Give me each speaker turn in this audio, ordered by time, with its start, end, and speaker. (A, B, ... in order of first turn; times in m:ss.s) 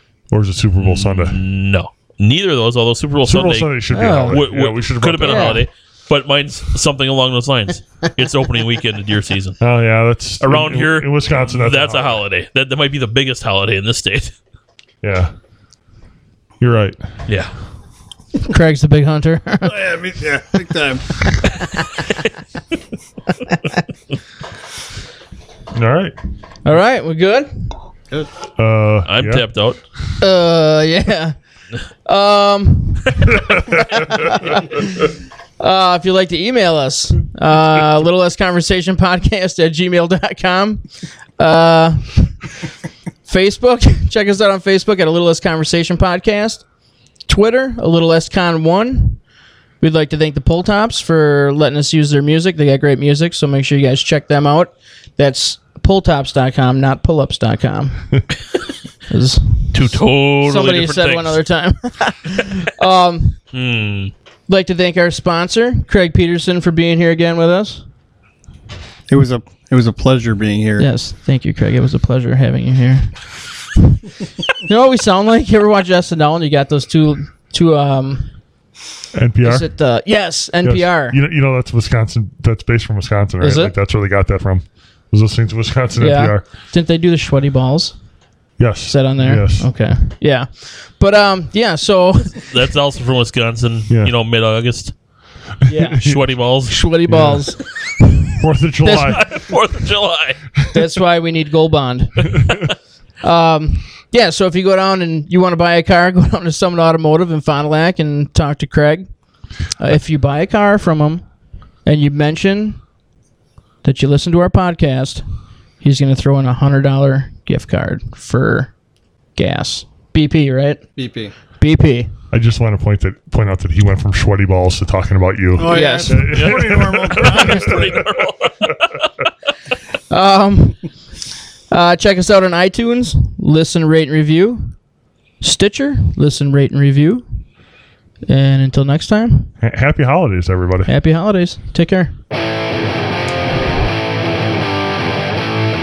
0:00.3-0:01.4 A
0:00.8-0:09.6 B
0:03.2-0:05.6 A
0:03.9-0:04.4 C
0:05.2-0:05.6 C
0:09.6-0:12.2 A
0:10.4-0:14.3 B
0:15.0-0:15.3 A
0:16.6-0:17.0 A
0:17.3-0:17.5 B
0:18.5-0:19.8 C
0:19.6-0:21.1 D
0:25.7-0:26.1 A
0:26.6-0:27.7 C
0:28.6-0:29.5 A
0:29.1-0:29.8 B
0:30.2-0:31.4 C
0:32.0-0:40.8 C
0:33.4-0:34.5 A
0:41.4-0:42.3 C
0:43.2-0:46.6 C
0:47.3-0:49.2 C
0:49.8-0:58.2 C
0:59.1-1:03.4 C
0:59.7-1:01.4 B
1:03.5-1:04.1 B
1:04.5-1:07.8 C
1:09.1-1:10.9 D
1:10.8-1:13.2 C
1:13.8-1:14.0 C
1:14.5-1:18.3 C
1:19.1-1:19.7 A
1:19.4-1:21.2 C
1:20.6-1:26.4 A
1:23.4-1:23.7 C
1:26.0-1:28.0 C
1:28.6-1:29.7 A
1:28.9-1:32.4 C
1:32.4-1:34.9 B
1:35.7-1:36.1 C
1:35.7-1:36.3 A
1:36.0-1:36.8 B
1:36.6-1:38.1 C
1:37.1-1:37.5 A
1:38.4-1:39.3 A
1:38.8-1:39.2 C
1:38.9-1:40.4 B
1:40.7-1:42.6 C
1:43.2-1:49.1 C
1:49.8-1:51.2 C
1:51.8-1:52.8 C
1:53.8-1:55.2 C
1:55.8-1:58.7 C
1:59.4-2:00.8 C
2:01.0-2:01.3 D
2:01.6-2:02.1 C
2:02.3-2:08.0 A
2:05.6-2:08.1 D
2:05.7-2:06.4 C
2:06.3-2:08.8 B
2:10.1-2:10.8 C
2:11.7-2:14.8 C
2:15.4-2:17.2 C
2:18.3-2:19.5 C
2:19.6-2:20.9 A
2:20.9-2:22.1 C